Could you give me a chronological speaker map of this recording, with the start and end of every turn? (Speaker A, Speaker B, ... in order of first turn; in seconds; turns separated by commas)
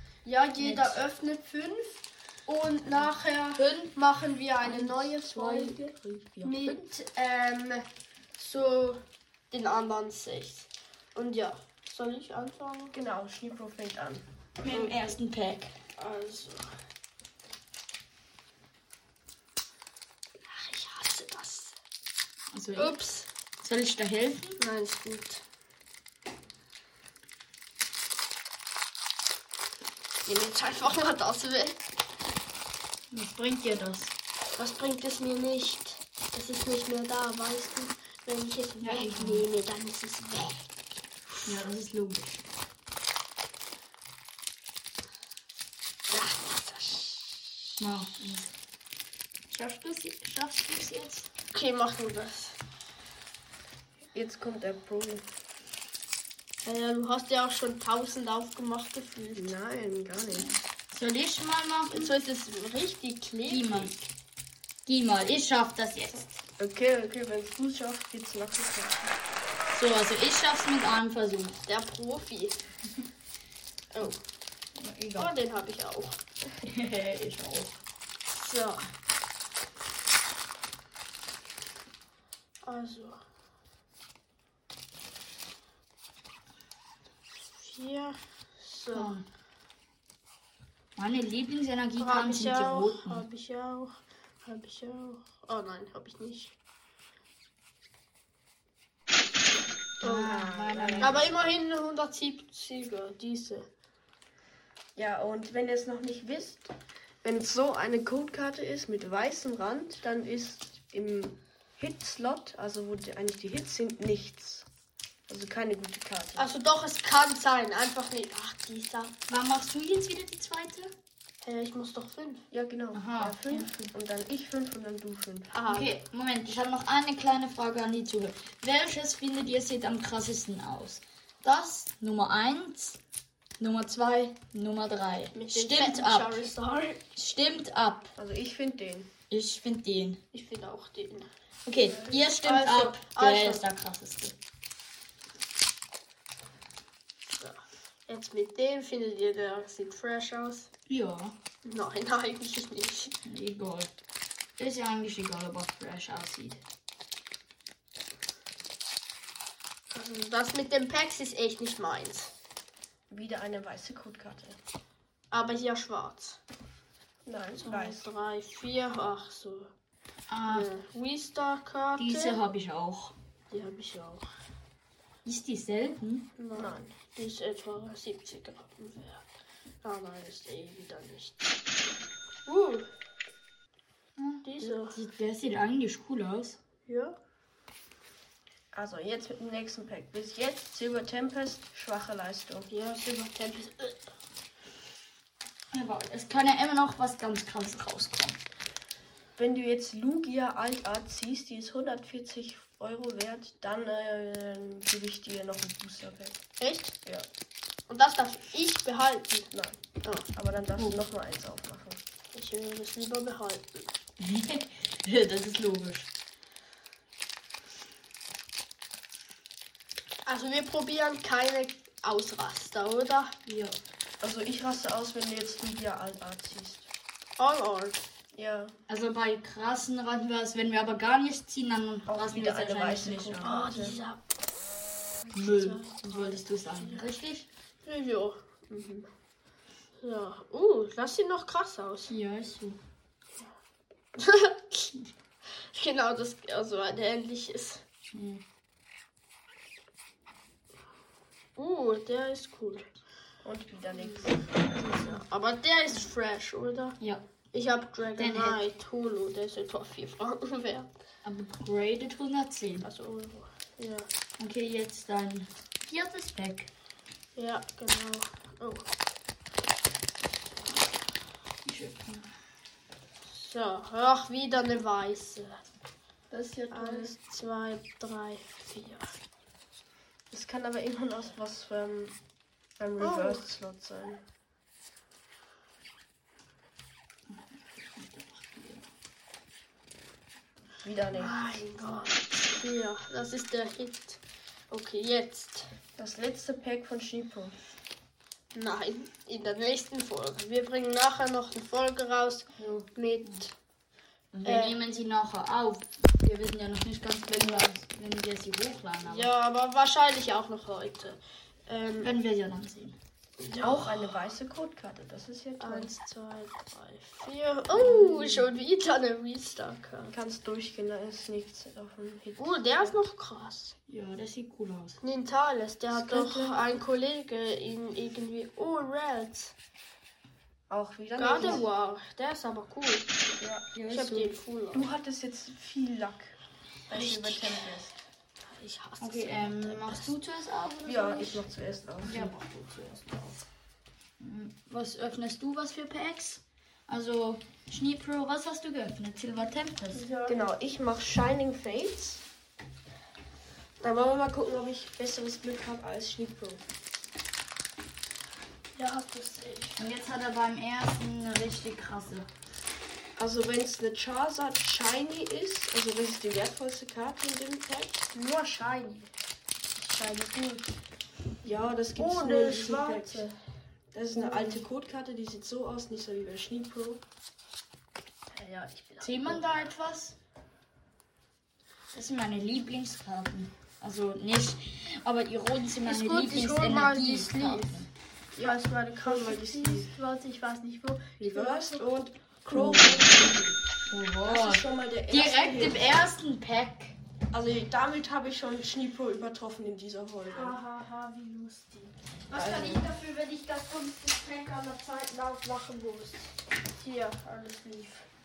Speaker A: 0.2-5.8, Speaker B: 0.6-1.0, Speaker B: 3.5-4.0, Speaker B: 4.6-5.9, Speaker C: 5.6-6.8, Speaker A: 6.4-7.8, Speaker A: 8.4-9.0, Speaker A: 9.5-12.9, Speaker C: 12.9-14.2, Speaker B: 14.6-15.7, Speaker A: 14.7-15.1, Speaker A: 16.0-16.8, Speaker A: 20.4-21.7, Speaker B: 22.5-23.0, Speaker A: 22.8-23.3, Speaker B: 23.6-24.6, Speaker A: 24.6-25.4, Speaker A: 30.3-31.8, Speaker B: 33.1-34.1, Speaker A: 34.6-40.6, Speaker B: 38.8-39.5, Speaker B: 41.5-42.4, Speaker A: 46.1-47.7, Speaker B: 47.8-48.5, Speaker B: 49.5-51.3, Speaker A: 51.5-52.6, Speaker C: 54.1-55.3, Speaker A: 56.6-59.5, Speaker C: 59.4-60.6, Speaker B: 60.4-62.1, Speaker A: 61.9-64.1, Speaker B: 63.5-64.0, Speaker B: 64.9-66.4, Speaker C: 66.6-69.2, Speaker B: 69.7-71.6, Speaker A: 71.7-72.6, Speaker A: 73.9-74.2, Speaker B: 74.8-75.3, Speaker A: 75.2-76.2, Speaker B: 76.6-77.8, Speaker A: 78.3-78.9, Speaker A: 82.6-83.2, Speaker A: 87.6-89.2, Speaker B: 88.9-89.3, Speaker B: 91.0-93.2, Speaker A: 92.0-96.5, Speaker B: 100.0-101.2, Speaker C: 100.0-101.3, Speaker A: 100.0-100.4, Speaker A: 101.0-103.7, Speaker C: 105.0-106.7, Speaker C: 107.2-114.7, Speaker C: 115.3-116.5, Speaker A: 116.4-119.2, Speaker B: 119.3-120.9, Speaker A: 121.4-122.5, Speaker C: 122.5-125.5, Speaker B: 122.9-123.9, Speaker A: 125.5-125.9, Speaker B: 125.7-133.0, Speaker B: 133.6-136.5, Speaker A: 135.3-137.0, Speaker B: 137.2-138.1, Speaker C: 138.2-139.1, Speaker B: 139.3-140.2, Speaker A: 140.3-141.3, Speaker B: 141.7-144.3, Speaker A: 142.1-143.6, Speaker A: 147.4-150.7, Speaker B: 150.9-151.3, Speaker A: 151.7-153.1, Speaker B: 153.2-153.9, Speaker B: 154.6-156.6, Speaker A: 159.9-162.3, Speaker C: 163.1-164.6, Speaker A: 165.3-166.4, Speaker C: 167.3-168.1, Speaker A: 167.6-169.7, Speaker B: 170.3-170.7, Speaker A: 170.5-172.4, Speaker B: 172.0-173.2, Speaker A: 173.5-174.2, Speaker B: 175.2-176.3, Speaker A: 176.4-179.2, Speaker C: 176.6-176.9, Speaker A: 179.8-181.5, Speaker A: 182.5-182.9, Speaker B: 184.2-186.6, Speaker A: 184.4-185.0, Speaker A: 186.9-187.2, Speaker C: 188.7-192.7, Speaker A: 192.7-194.1, Speaker B: 195.7-198.4, Speaker C: 199.4-206.4, Speaker A: 206.6-206.9, Speaker A: 207.9-209.5, Speaker C: 209.5-209.8, Speaker A: 210.0-210.3, Speaker C: 210.3-212.0, Speaker A: 212.3-213.9, Speaker B: 214.2-216.1, Speaker A: 220.3-223.3, Speaker B: 223.5-223.8, Speaker C: 224.2-226.9, Speaker A: 227.4-228.1, Speaker C: 228.3-228.7, Speaker B: 228.9-233.4, Speaker C: 232.1-234.0, Speaker A: 233.4-234.2, Speaker A: 235.3-237.0, Speaker B: 235.3-237.5, Speaker A: 237.8-238.7, Speaker C: 238.7-239.1, Speaker A: 240.0-242.1, Speaker B: 242.1-242.8, Speaker A: 244.2-244.9, Speaker A: 245.7-247.8, Speaker B: 248.1-248.4, Speaker A: 251.6-252.9, Speaker C: 253.4-255.2, Speaker A: 254.9-257.0, Speaker A: 257.5-260.9, Speaker B: 258.2-258.6, Speaker B: 261.2-262.9, Speaker A: 262.8-264.1, Speaker B: 264.4-266.7, Speaker A: 267.4-268.9, Speaker B: 271.6-272.3, Speaker A: 273.3-275.6, Speaker C: 276.3-277.1, Speaker A: 276.7-279.1, Speaker C: 280.3-282.2, Speaker C: 282.8-284.2, Speaker A: 283.0-283.5, Speaker B: 287.3-288.9, Speaker C: 290.8-291.6, Speaker A: 291.1-295.7, Speaker C: 296.0-297.6, Speaker A: 298.5-303.5, Speaker B: 302.6-303.4, Speaker B: 304.3-309.3, Speaker A: 304.4-304.8, Speaker A: 309.0-312.1, Speaker B: 312.0-313.0, Speaker A: 313.4-314.2, Speaker C: 313.6-315.9, Speaker A: 315.6-320.1, Speaker B: 317.7-318.5, Speaker C: 320.1-323.0, Speaker A: 322.4-323.8, Speaker B: 323.9-325.0, Speaker A: 325.0-329.6, Speaker C: 325.9-326.7, Speaker C: 330.7-331.7, Speaker A: 331.2-333.1, Speaker C: 333.4-333.7, Speaker B: 333.7-334.4, Speaker A: 333.9-334.9, Speaker C: 334.7-336.4, Speaker C: 336.9-337.9, Speaker A: 336.9-337.8, Speaker A: 338.5-340.1, Speaker B: 339.0-341.4, Speaker C: 340.9-342.4, Speaker B: 342.0-343.4, Speaker B: 344.2-350.0, Speaker A: 349.9-350.4, Speaker C: 350.3-352.2, Speaker C: 353.8-356.6, Speaker A: 358.8-359.8, Speaker B: 359.8-362.3, Speaker C: 363.2-368.0, Speaker A: 368.1-369.1, Speaker A: 369.8-370.8, Speaker C: 371.4-373.3, Speaker A: 372.0-373.4, Speaker C: 373.9-377.0, Speaker A: 374.1-374.6, Speaker A: 378.3-379.5, Speaker B: 379.0-380.2, Speaker B: 381.9-387.9, Speaker A: 385.8-387.8, Speaker C: 388.4-389.9, Speaker A: 388.4-391.8, Speaker C: 391.2-393.6, Speaker B: 392.5-393.0, Speaker B: 393.9-397.0, Speaker C: 394.2-396.0, Speaker C: 397.3-400.6, Speaker A: 400.3-408.1, Speaker C: 402.3-402.9